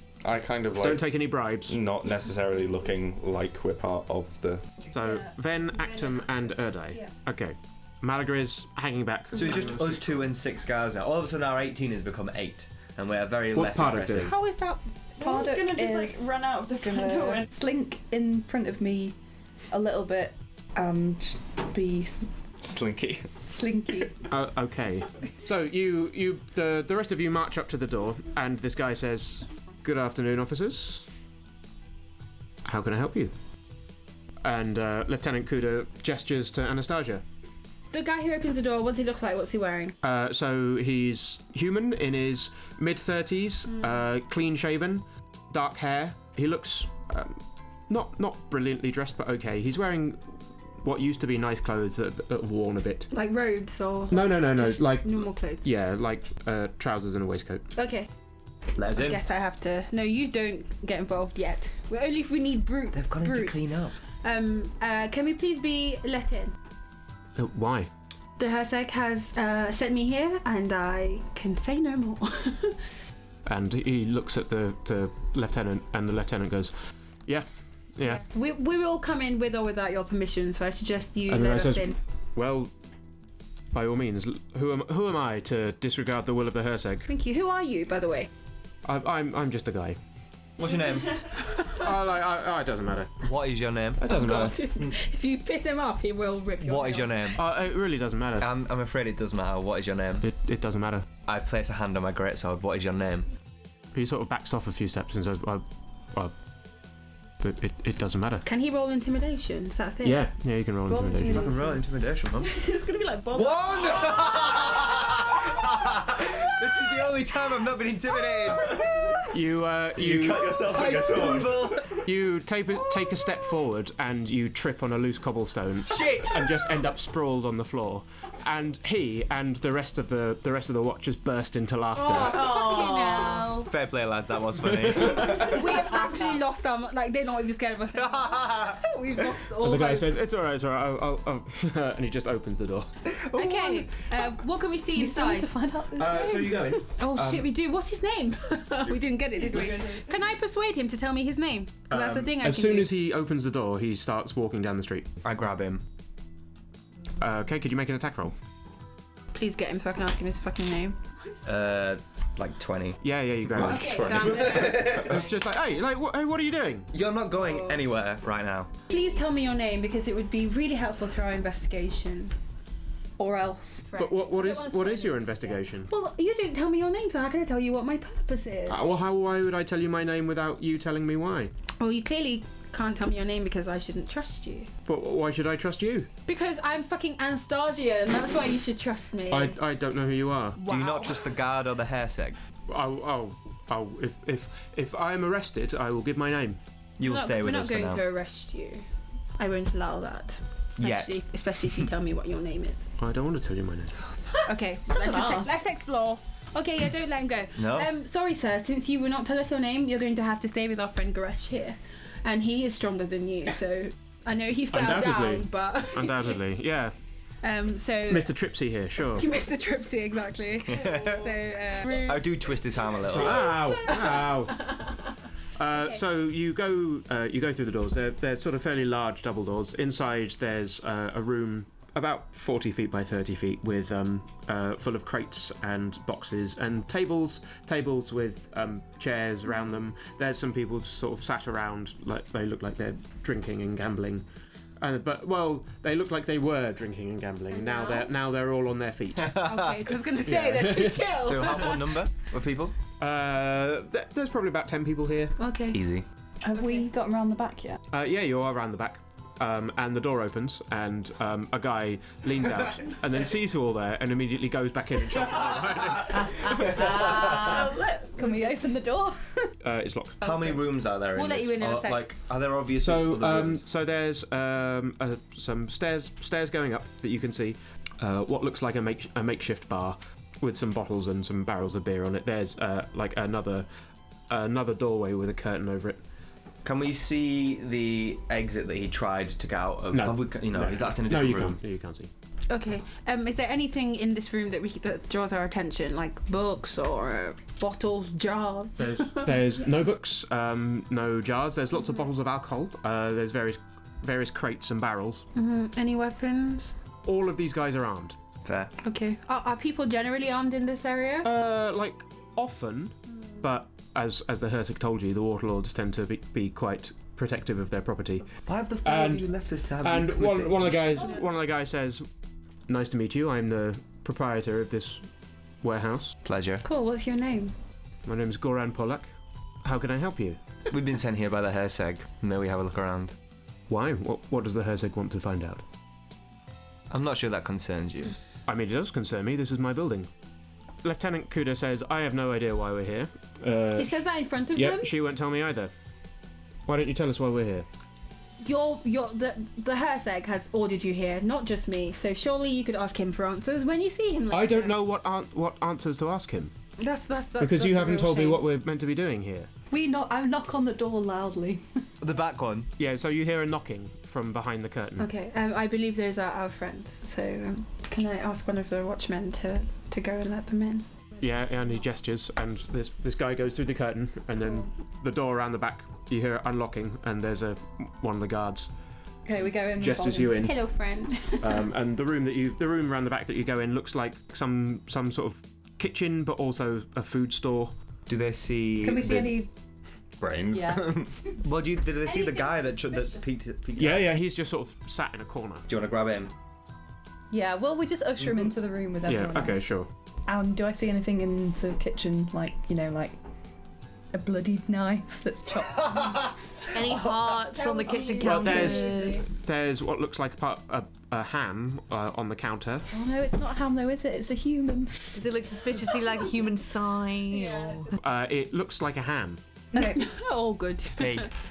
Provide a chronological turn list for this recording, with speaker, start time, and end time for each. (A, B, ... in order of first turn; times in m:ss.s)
0:00.2-0:04.6 A
0:00.8-0:01.8 B
0:04.9-0:10.2 B
0:05.9-0:06.2 C
0:09.3-0:14.3 D
0:13.5-0:14.3 B
0:14.2-0:14.9 C
0:15.2-0:17.5 E
0:15.2-0:19.2 F
0:19.7-0:22.3 F
0:22.6-0:23.3 A
0:23.4-0:24.2 F
0:24.3-0:31.1 B
0:32.6-0:33.3 B
0:34.4-0:37.2 B
0:37.9-0:40.0 C
0:40.0-0:53.1 B
0:43.7-0:44.0 C
0:53.1-0:55.6 C
0:54.1-0:57.7 B
0:57.7-0:58.1 C
0:58.8-0:59.2 D
0:58.9-1:03.6 C
1:02.9-1:04.0 D
1:04.2-1:06.5 C
1:07.4-1:07.9 B
1:08.4-1:12.8 C
1:13.4-1:16.7 B
1:17.2-1:18.2 B
1:18.1-1:22.0 C
1:21.3-1:22.7 B
1:23.7-1:27.1 B
1:27.1-1:28.3 C
1:28.8-1:30.0 B
1:30.6-1:31.2 D
1:31.7-1:33.2 B
1:33.2-1:34.5 D
1:34.0-1:34.6 B
1:34.0-1:37.3 C
1:36.6-1:37.4 D
1:37.4-1:38.5 B
1:38.4-1:40.3 D
1:40.2-1:41.1 B
1:41.2-1:43.3 D
1:43.9-1:46.3 B
1:47.4-1:48.4 B
1:48.4-1:50.3 C
1:50.0-1:51.5 B
1:50.9-1:51.7 F
1:51.3-1:52.6 D
1:52.4-1:54.2 E
1:53.3-1:59.2 D
1:59.3-2:00.5 B
2:00.0-2:02.1 D
2:00.8-2:01.6 A
2:02.0-2:12.5 B
2:05.9-2:06.7 D
2:12.0-2:13.7 C
2:12.4-2:13.5 G
2:13.6-2:16.0 D
2:14.6-2:15.5 B
2:15.2-2:20.1 C
2:17.9-2:18.8 D
2:19.6-2:23.0 B
2:23.3-2:23.7 D
2:23.3-2:25.5 C
2:23.4-2:23.8 F
2:24.9-2:26.7 F
2:26.0-2:27.5 B
2:26.0-2:32.9 C
2:31.9-2:35.1 B
2:35.2-2:35.8 D
2:37.2-2:38.3 B
2:39.3-2:41.0 C
2:41.4-2:45.2 D
2:43.0-2:46.9 B
2:43.6-2:45.1 C
2:46.9-2:48.7 D
2:47.5-2:47.8 C
2:48.9-2:52.3 C
2:53.2-2:53.9 F
2:53.9-2:58.9 C
2:54.0-2:55.9 B
2:58.7-3:01.5 B
3:01.8-3:04.7 C
3:04.8-3:06.1 B
3:06.2-3:09.6 C
3:09.3-3:10.6 B
3:10.6-3:11.3 C
3:10.6-3:12.4 D
3:12.7-3:16.6 B
3:17.0-3:18.0 D
3:17.0-3:18.8 C
3:19.4-3:22.9 C
3:20.8-3:21.2 D
3:23.0-3:24.0 B
3:24.4-3:36.4 C
3:24.9-3:25.6 G
3:27.6-3:27.9 D
3:34.7-3:36.9 B
3:37.4-3:38.3 C
3:38.1-3:39.3 B
3:39.1-3:42.2 C
3:40.6-3:43.6 D
3:43.0-3:44.8 B
3:43.2-3:44.9 C
3:45.6-4:04.2 B
3:45.7-3:46.0 C
4:04.8-4:09.4 B
4:07.5-4:08.1 C
4:09.2-4:09.9 D
4:09.4-4:12.0 C
4:10.2-4:11.5 B
4:11.2-4:12.8 D
4:13.0-4:15.4 B
4:15.4-4:15.8 C
4:15.7-4:16.0 D
4:16.4-4:17.8 F
4:17.9-4:26.6 B
4:26.8-4:27.3 D
4:26.9-4:28.6 E
4:27.0-4:27.6 F
4:28.1-4:29.5 F
4:29.6-4:30.6 B
4:30.2-4:33.6 D
4:31.1-4:32.1 C
4:32.8-4:43.7 B
4:44.3-4:46.0 B
4:46.6-4:51.6 D
4:49.9-4:52.1 B
4:52.5-4:59.4 C
4:58.8-5:05.2 B
5:05.3-5:06.7 C
5:07.0-5:08.2 B
5:08.4-5:08.7 D
5:08.8-5:11.3 C
5:11.2-5:18.3 B
5:18.4-5:21.1 D
5:18.8-5:19.3 B
5:19.8-5:22.0 B
5:22.7-5:25.0 B
5:25.6-5:26.2 B
5:26.2-5:26.6 D
5:26.6-5:27.5 C
5:28.0-5:29.1 B
5:29.6-5:30.4 B
5:30.7-5:33.1 D
5:33.7-5:35.6 B
5:36.9-5:38.1 D
5:38.5-5:40.1 B
5:40.8-5:44.0 B
5:43.7-5:44.9 C
5:44.5-5:45.7 B
5:46.6-5:47.6 B
5:48.4-5:54.8 C
5:54.3-5:56.5 B
5:56.8-5:58.4 C
5:57.4-5:59.5 B
5:59.7-6:01.6 F
6:02.0-6:02.7 D
6:02.8-6:05.1 B
6:05.0-6:10.8 C
6:11.2-6:18.7 B
6:19.2-6:20.4 F
6:19.8-6:20.6 B
6:20.4-6:21.6 C
6:21.4-6:27.7 B
6:28.1-6:29.3 D
6:28.8-6:29.5 F
6:30.2-6:31.1 A
6:30.5-6:31.4 F
6:31.4-6:34.1 D
6:32.3-6:32.8 C
6:33.8-6:35.6 B
6:35.7-6:36.3 D
6:37.3-6:43.2 F
6:39.0-6:39.9 B
6:44.1-6:46.3 F
6:46.7-6:49.3 G
6:47.5-6:49.3 C
6:48.2-6:52.8 B
6:52.9-6:55.2 F
6:55.1-6:57.9 G
6:57.3-6:57.9 C
6:58.0-6:59.4 B
6:59.7-7:00.0 F
6:59.8-7:01.3 C
7:01.0-7:01.3 D